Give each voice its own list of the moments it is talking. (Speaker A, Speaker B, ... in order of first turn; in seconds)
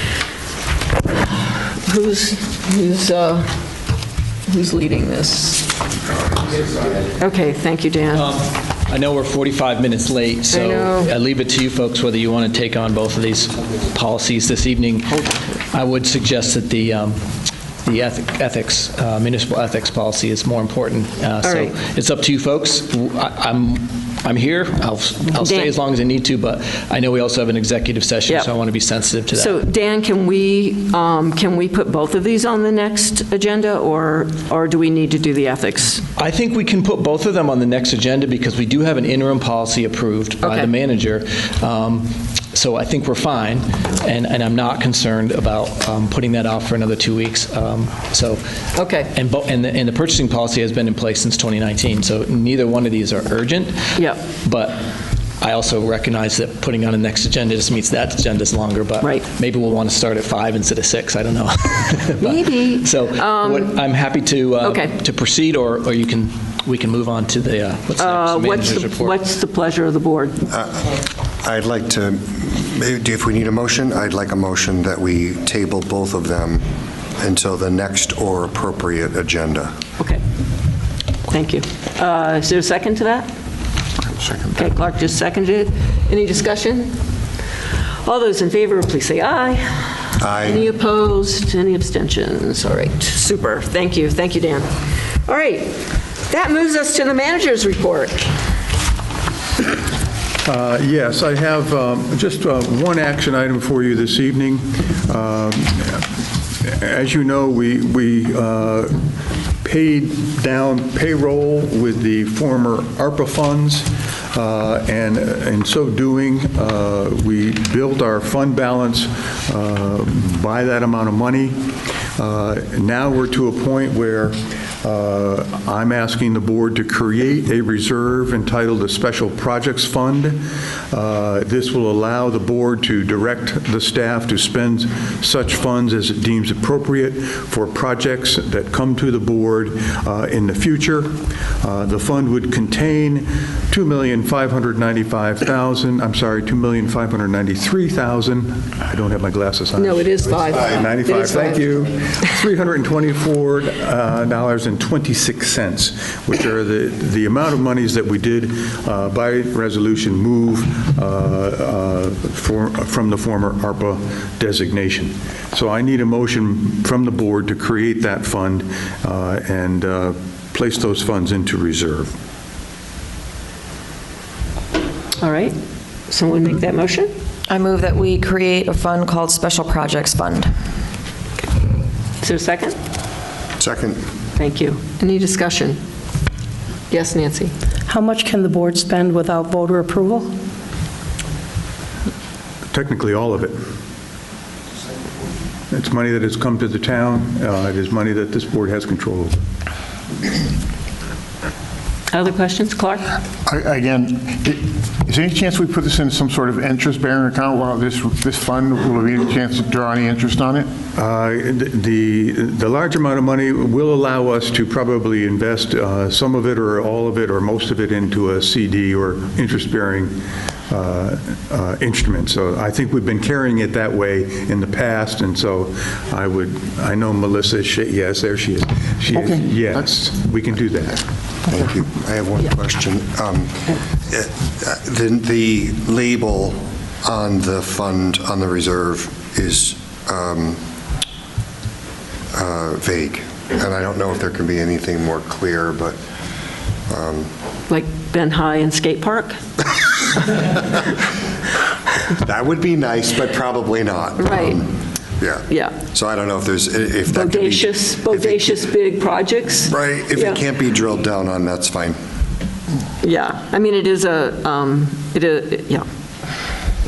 Speaker A: 1.2-3.6, 4.5-5.7, 7.2-8.3, 10.5-11.1, 21.4-21.7, 25.4-25.7, 29.3-36.0, 40.4-40.7, 48.7-49.1, 54.0-54.2, 62.2-63.8, 64.6-64.9, 68.0-70.4, 81.3-83.3, 84.5-87.0, 88.0-98.3, 149.8-151.7, 175.2-175.6, 176.1-177.1, 182.2-182.8, 184.3-185.8, 186.9-187.5, 202.1-203.0, 247.7-249.4, 254.2-254.6, 255.5-255.7, 257.1-260.4, 263.0-265.9
Speaker B: 8.1-17.2, 17.8-29.6, 36.2-48.4, 49.1-54.8, 55.4-69.2
Speaker C: 70.5-76.6, 77.2-79.7, 90.2-90.6, 183.6-184.0, 231.5-240.6, 242.3-245.9, 246.9-247.3, 252.1-258.5, 259.7-262.0
Speaker D: 84.1-84.6, 203.4-210.7, 229.1-229.9
Speaker E: 100.4-106.0, 106.6-109.0, 109.6-121.5, 122.2-172.1, 192.7-193.6, 195.7-199.3, 210.9-220.1, 220.7-231.0
Speaker F: 177.5-180.5
Speaker G: 187.9-190.3